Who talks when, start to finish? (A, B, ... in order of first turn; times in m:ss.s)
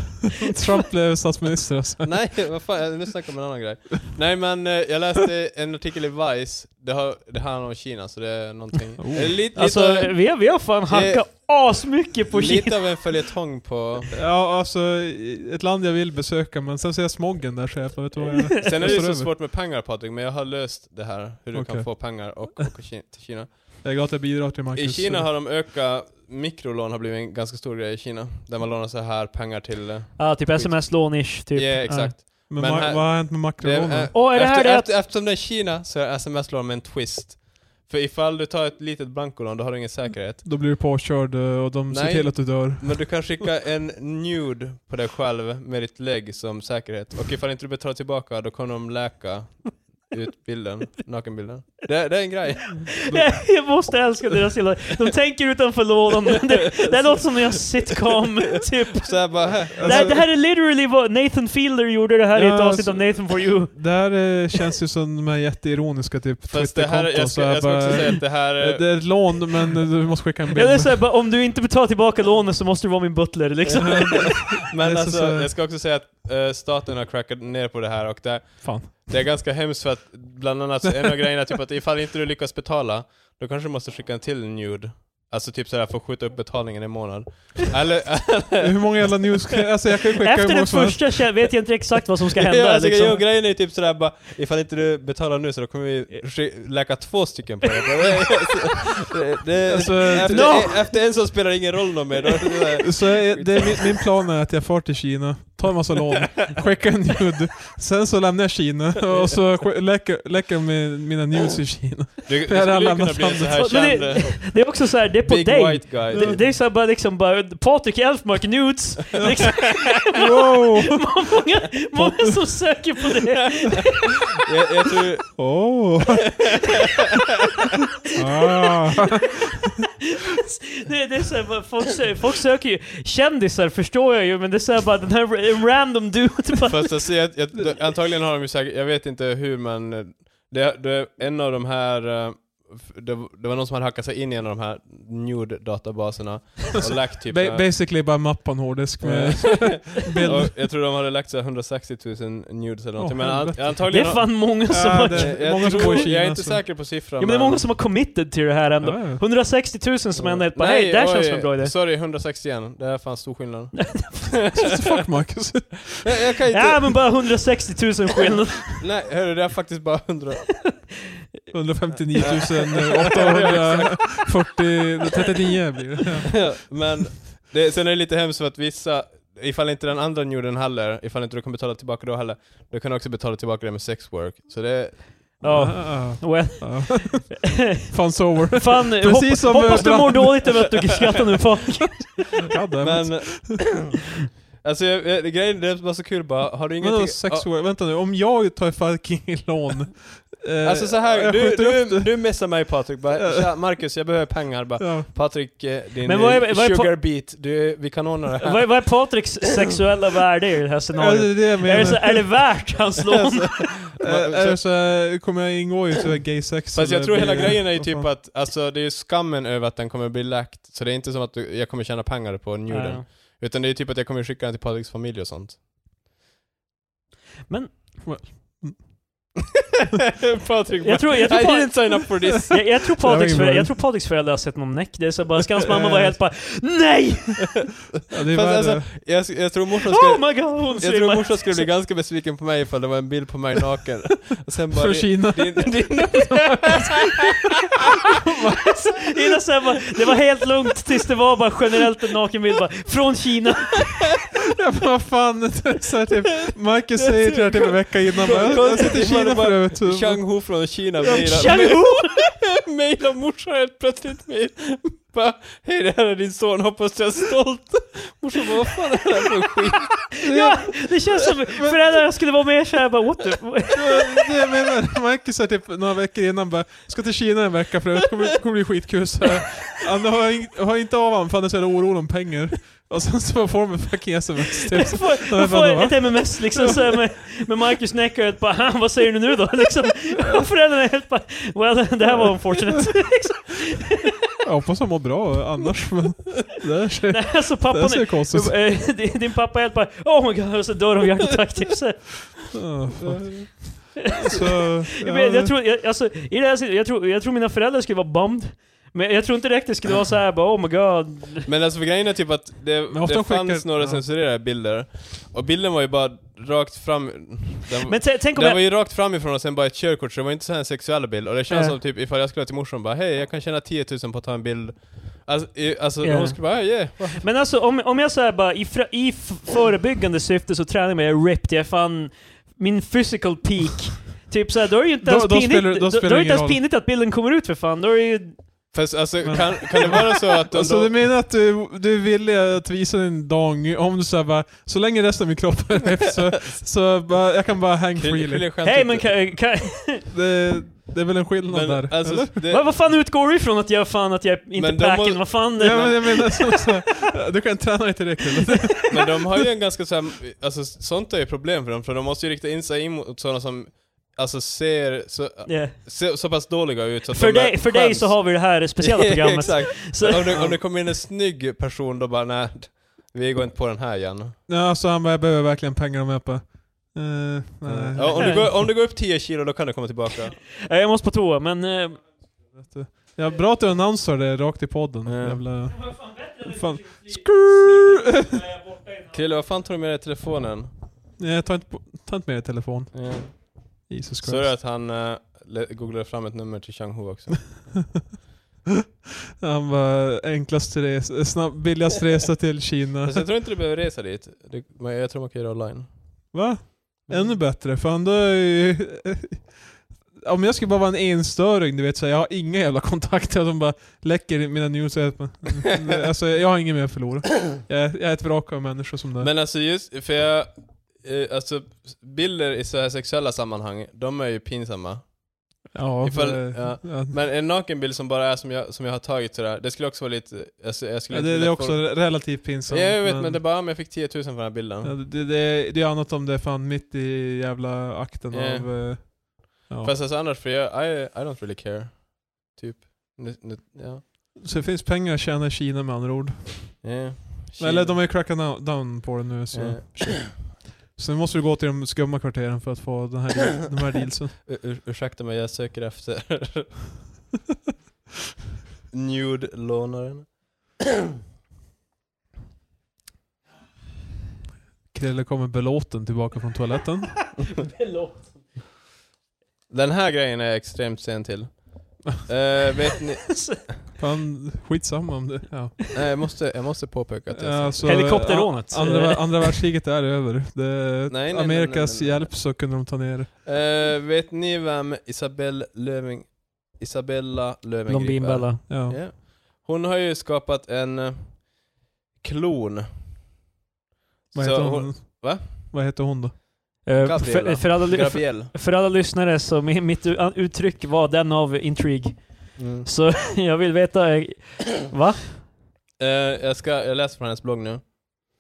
0:00.4-0:02.4 A
0:02.0-0:11.7 B
0:09.0-0:09.4 A
0:09.5-0:13.1 C
0:12.3-0:14.2 B
0:14.1-0:19.3 A
0:18.4-0:19.0 C
0:18.6-0:23.8 B
0:21.5-0:22.7 A
0:23.8-0:25.3 A
0:24.7-0:40.5 B
0:30.2-0:32.3 C
0:32.5-0:34.1 A
0:34.1-0:34.9 C
0:40.4-0:43.4 A
0:41.9-0:53.0 B
0:53.1-0:53.6 A
0:53.1-1:04.3 C
0:57.0-0:57.3 B
0:59.0-1:00.2 B
0:59.8-1:00.2 A
1:02.3-1:11.0 A
1:06.5-1:09.4 B
1:10.5-1:14.4 C
1:13.7-1:29.4 B
1:13.8-1:15.5 A
1:18.6-1:19.1 A
1:20.8-1:21.3 A
1:28.6-1:31.4 A
1:30.2-1:33.2 C
1:32.3-1:44.0 B
1:39.7-1:40.7 A
1:40.1-1:41.0 C
1:42.8-1:53.8 A
1:52.3-1:54.7 B
1:53.6-2:04.2 C
1:55.2-1:56.4 B
1:56.1-1:56.5 A
1:59.2-2:01.1 A
2:02.0-2:02.8 A
2:04.4-2:05.9 B
2:05.4-2:06.4 A
2:06.6-2:07.3 B
2:08.2-2:09.8 A
2:10.2-2:17.1 C
2:16.7-2:27.7 B
2:27.3-2:30.5 A
2:29.0-2:37.7 B
2:33.0-2:34.1 A
2:33.9-2:36.1 C
2:34.6-2:36.6 A
2:37.2-2:41.8 C
2:38.8-2:39.2 A
2:40.2-2:44.8 B
2:43.8-2:44.5 C
2:44.5-2:46.1 A
2:46.0-2:47.2 B
2:46.5-2:48.8 C
2:48.8-2:50.6 B
2:51.5-2:56.8 A
2:52.2-2:54.6 B
2:56.4-3:05.4 B
3:05.4-3:12.5 C
3:05.5-3:10.7 A
3:12.5-3:13.8 A
3:12.8-3:13.9 B
3:14.6-3:17.5 B
3:16.8-3:22.5 A
3:20.6-3:29.2 B
3:23.1-3:23.7 A
3:24.8-3:25.1 A
3:26.0-3:27.0 C
3:28.4-3:33.8 C
3:31.0-3:32.5 A
3:33.1-3:34.6 B
3:34.0-3:38.1 A
3:36.7-3:45.6 B
3:42.7-3:43.1 C
3:47.5-3:48.3 C
3:48.0-3:49.0 A
3:49.8-3:52.7 B
3:50.8-3:57.6 C
3:53.0-3:53.8 A
3:55.4-3:56.2 A
3:58.1-3:58.9 A
3:58.3-4:07.8 B
3:59.9-4:01.7 C
4:04.7-4:07.2 A
4:08.3-4:08.8 A
4:08.7-4:14.1 C
4:14.5-4:20.4 A
4:17.2-4:30.2 B
4:21.0-4:22.2 C
4:30.2-4:34.3 C
4:30.2-4:30.8 A
4:33.7-4:46.8 A
4:44.7-4:54.4 C
4:54.4-4:58.6 A
4:57.1-5:02.7 C
5:02.5-5:05.6 A
5:03.0-5:03.9 B
5:04.1-5:11.5 C
5:11.5-5:27.2 B
5:12.9-5:14.1 A
5:17.9-5:18.6 C
5:21.5-5:21.8 C
5:26.0-5:38.7 C
5:35.0-5:36.6 A
5:38.7-5:41.0 B
5:39.2-5:48.5 A
5:48.0-5:49.4 B
5:48.6-5:50.1 C
5:50.1-5:52.4 A
5:51.5-5:52.7 B
5:52.5-5:56.9 C
5:54.6-5:55.4 B
5:55.6-5:58.9 A
5:58.9-6:14.4 B
6:05.5-6:05.8 C
6:07.1-6:10.4 C
6:10.3-6:10.6 A
6:14.5-6:18.6 A
6:17.6-6:20.4 B
6:20.3-6:22.3 C
6:22.3-6:28.4 A
6:25.0-6:25.4 B
6:25.7-6:29.2 C
6:29.1-6:30.7 B
6:31.2-6:34.5 A
6:32.9-6:37.7 B
6:39.4-6:43.3 A
6:43.0-6:45.9 B
6:46.3-6:59.3 A
6:47.1-6:47.4 B
6:59.2-7:05.2 B
7:05.7-7:07.2 A
7:06.0-7:14.9 B
7:11.1-7:13.4 A
7:14.8-7:19.9 A
7:18.3-7:19.3 B
7:19.8-7:24.0 B
7:24.4-7:26.9 A
7:26.8-7:28.0 B
7:27.6-7:34.4 A
7:29.5-7:30.3 B
7:34.5-7:36.8 B
7:38.9-7:40.4 B
7:44.9-7:47.4 A
7:47.4-7:48.6 C
7:49.7-7:53.7 B
7:53.3-7:53.6 C
7:54.0-7:55.9 A
7:55.9-7:58.2 B
7:57.3-8:03.3 A
7:57.8-7:59.6 C
8:01.1-8:02.4 B
8:03.4-8:13.0 B
8:07.9-8:08.6 C
8:08.7-8:09.0 A
8:14.3-8:15.5 B
8:14.3-8:16.4 A
8:16.8-8:25.5 C
8:17.0-8:18.5 B
8:22.6-8:22.9 B
8:26.0-8:28.0 B